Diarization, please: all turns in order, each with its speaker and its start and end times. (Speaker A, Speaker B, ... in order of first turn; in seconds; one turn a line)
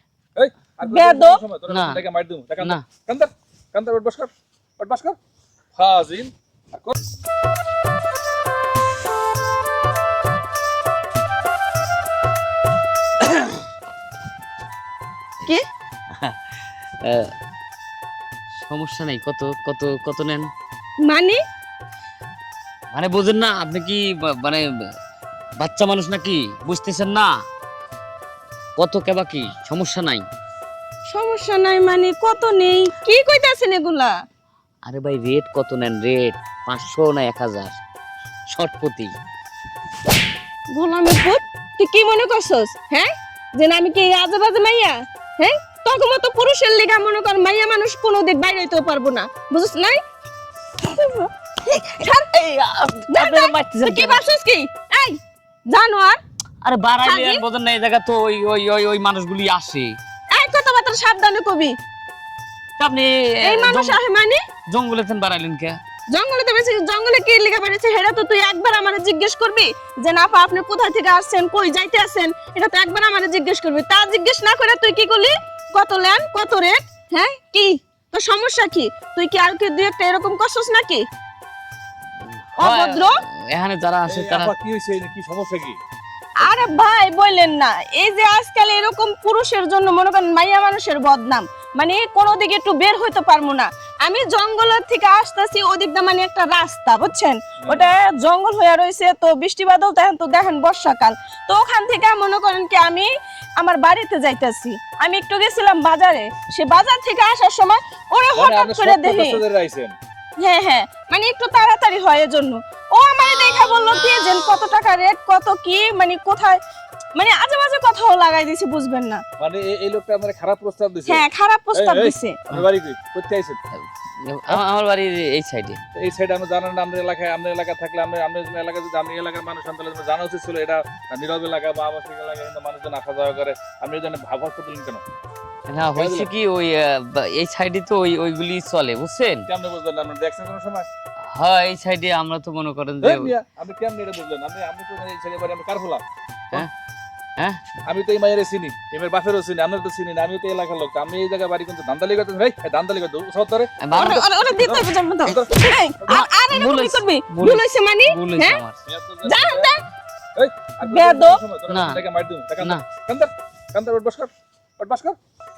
Speaker A: 0.4-5.2
Speaker B: 0.8-1.4
Speaker C: 1.7-2.0
Speaker A: 5.8-7.0
Speaker C: 16.1-16.4
Speaker C: 17.0-17.3
Speaker C: 18.6-20.5
Speaker B: 21.1-21.4
Speaker C: 22.9-24.7
Speaker C: 25.6-27.4
Speaker C: 28.8-30.2
Speaker B: 31.1-34.1
Speaker C: 34.9-37.8
Speaker C: 38.5-39.1
Speaker B: 40.7-50.0
Speaker B: 50.8-52.5
Speaker C: 52.4-54.2
Speaker B: 53.1-55.2
Speaker B: 55.7-56.2
Speaker C: 56.6-60.0
Speaker B: 57.0-57.4
Speaker B: 60.3-61.8
Speaker C: 62.8-64.0
Speaker B: 63.4-64.4
Speaker C: 64.7-65.8
Speaker B: 66.1-81.0
Speaker C: 82.2-84.5
Speaker B: 82.6-83.2
Speaker A: 84.1-85.8
Speaker B: 86.4-109.4
Speaker A: 97.7-97.9
Speaker A: 108.4-109.9
Speaker B: 110.4-116.6
Speaker B: 117.2-119.2
Speaker A: 119.4-123.6
Speaker B: 121.1-122.4
Speaker C: 124.2-125.8
Speaker A: 126.0-135.0
Speaker C: 135.7-139.5
Speaker A: 136.0-136.3
Speaker A: 139.5-140.9
Speaker C: 141.3-143.3
Speaker A: 143.0-146.7
Speaker A: 147.9-156.2
Speaker C: 153.8-154.2
Speaker B: 153.9-158.6
Speaker C: 156.1-158.8
Speaker A: 158.9-159.7
Speaker B: 159.2-159.8
Speaker A: 160.4-165.2
Speaker B: 160.8-161.4
Speaker C: 161.7-162.0